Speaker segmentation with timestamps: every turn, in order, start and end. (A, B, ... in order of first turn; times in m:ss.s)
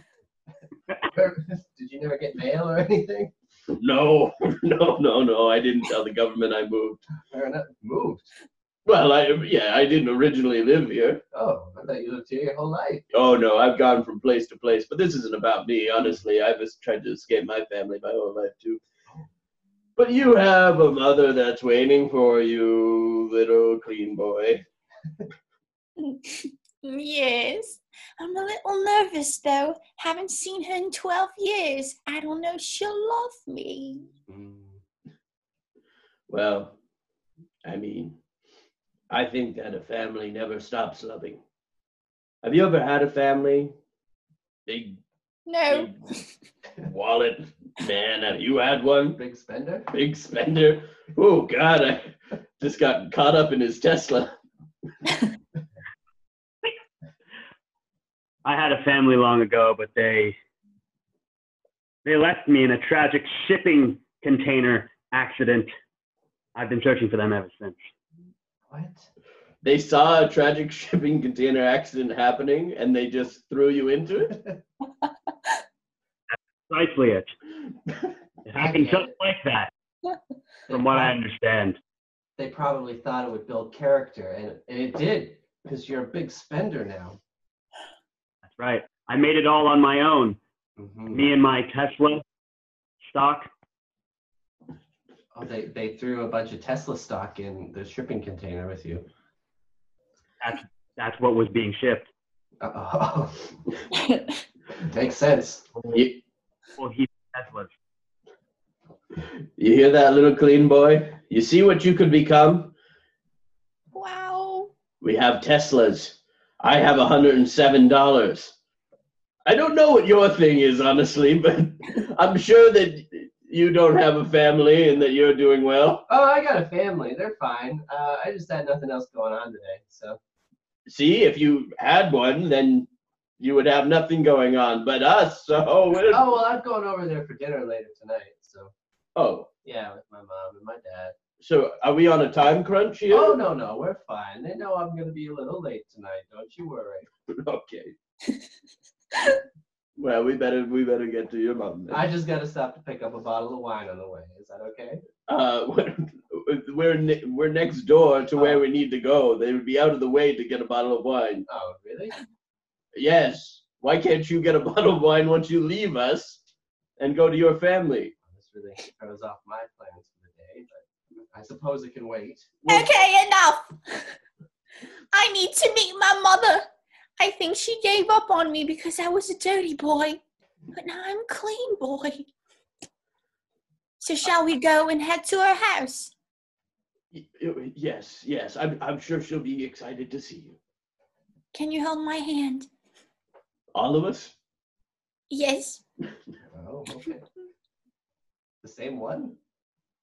0:01.0-0:03.3 A
0:03.7-0:07.0 B
0:07.3-0:08.3 A
0:08.8-0:11.2 B
0:11.3-0:13.0 A
0:13.1-0:18.8 B
0:20.0-0:24.6 B
0:26.0-0:34.1 C
0:34.3-0:34.8 A
0:36.3-0:36.8 B
0:37.6-0:38.2 B
0:39.1-0:41.4 B
0:42.4-0:43.7 B
0:44.6-0:45.0 B
0:45.5-0:45.9 C
0:45.7-0:46.0 B
0:46.8-0:49.2 B
0:49.2-0:49.9 A
0:49.9-0:54.3 B
0:58.4-1:00.4 D
1:02.0-1:05.7 D
1:06.5-1:07.9 D
1:08.7-1:09.1 A
1:09.6-1:14.4 B
1:16.7-1:17.3 D
1:18.5-1:19.7 D
1:18.5-1:19.2 A
1:20.7-1:21.2 A
1:20.7-1:21.8 D
1:22.4-1:27.2 A
1:28.5-1:30.4 D
1:30.8-1:31.2 A
1:31.1-1:32.2 D
1:33.0-1:33.5 D
1:35.3-1:39.0 A
1:40.4-1:42.1 D
1:42.6-1:43.4 A
1:44.8-1:45.7 A
1:45.9-1:46.2 B
1:46.8-1:47.7 D
1:49.6-1:52.7 B
1:53.9-1:54.7 C
1:55.0-1:58.5 B
1:59.4-2:06.0 B
2:06.1-2:10.2 A
2:10.9-2:12.9 B
2:13.4-2:16.4 B
2:16.1-2:18.7 A
2:19.1-2:19.5 B
2:19.6-2:21.1 A
2:21.4-2:23.4 B
2:23.1-2:27.1 A
2:27.3-2:27.9 B
2:30.0-2:32.0 B
2:31.9-2:35.0 A
2:35.3-2:41.4 B
2:41.5-2:42.2 A
2:42.9-2:46.4 B
2:47.0-2:48.1 B
2:48.2-2:52.9 A
2:52.7-2:54.0 C
2:55.1-2:56.6 C
2:57.2-3:00.2 C
3:00.7-3:02.2 C
3:04.0-3:06.1 C
3:07.1-3:10.6 B
3:11.5-3:12.7 C
3:13.7-3:14.4 B
3:15.3-3:15.8 C
3:16.5-3:17.2 A
3:18.6-3:19.4 A